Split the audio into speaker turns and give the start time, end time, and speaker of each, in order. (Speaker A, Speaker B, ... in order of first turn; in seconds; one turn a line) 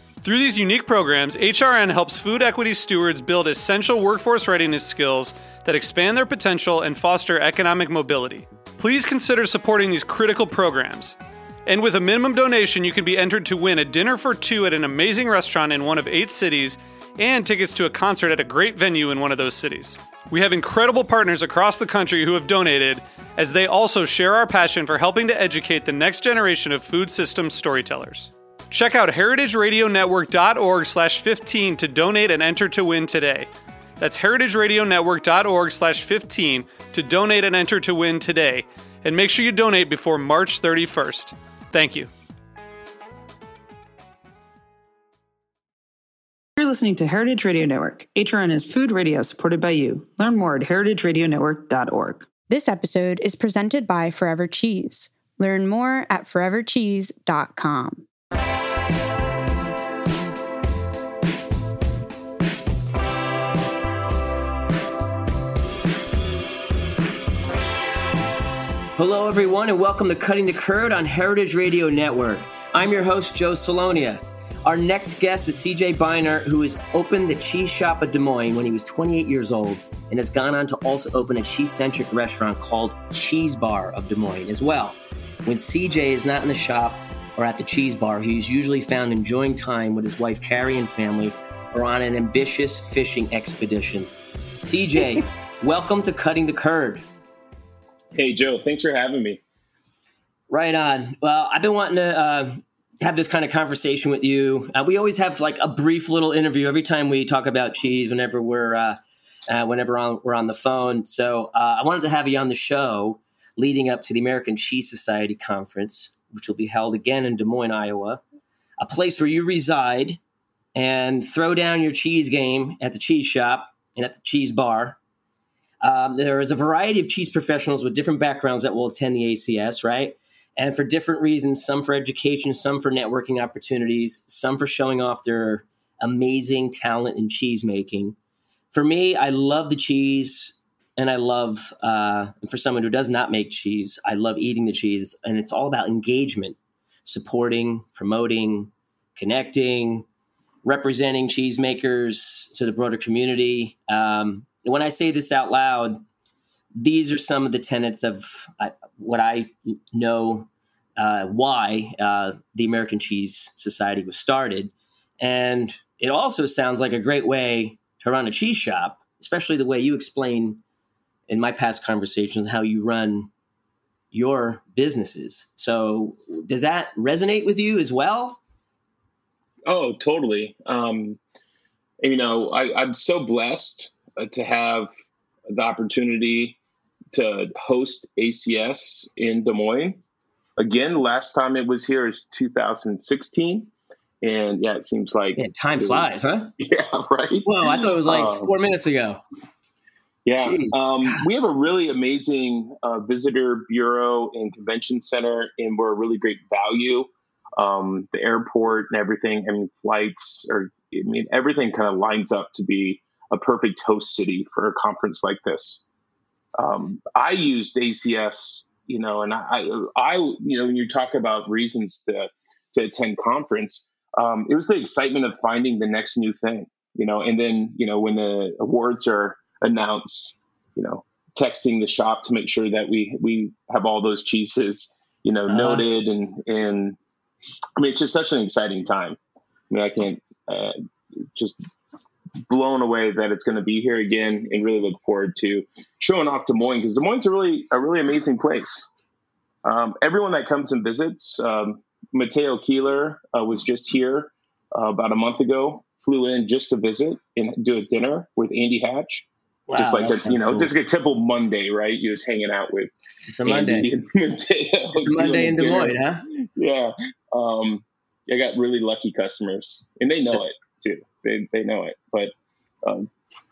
Speaker A: 0.2-33.5
Speaker A: 34.0-42.1
Speaker B: 46.6-52.3
Speaker C: 52.5-58.0
Speaker D: 69.0-97.0
Speaker E: 98.1-99.4
Speaker D: 100.5-118.2
Speaker D: 118.8-120.2
Speaker D: 120.8-125.0
Speaker D: 125.8-138.2
Speaker D: 138.7-150.1
Speaker D: 150.6-156.0
Speaker D: 156.8-170.6
Speaker D: 171.3-173.3
Speaker D: 174.1-178.4
Speaker E: 179.7-181.2
Speaker E: 182.0-184.9
Speaker E: 185.5-186.6
Speaker E: 187.1-190.0
Speaker E: 190.6-193.7
Speaker E: 194.2-198.5
Speaker D: 195.3-196.5
Speaker D: 197.4-199.2
Speaker E: 200.2-215.8
Speaker D: 200.4-201.2
Speaker E: 216.6-237.0
Speaker D: 235.5-235.9
Speaker E: 237.8-239.2
Speaker E: 239.7-240.8
Speaker E: 242.5-248.9
Speaker E: 249.6-262.9
Speaker D: 259.7-260.7
Speaker D: 263.2-263.9
Speaker E: 263.4-272.3
Speaker D: 264.9-266.3
Speaker E: 272.8-273.1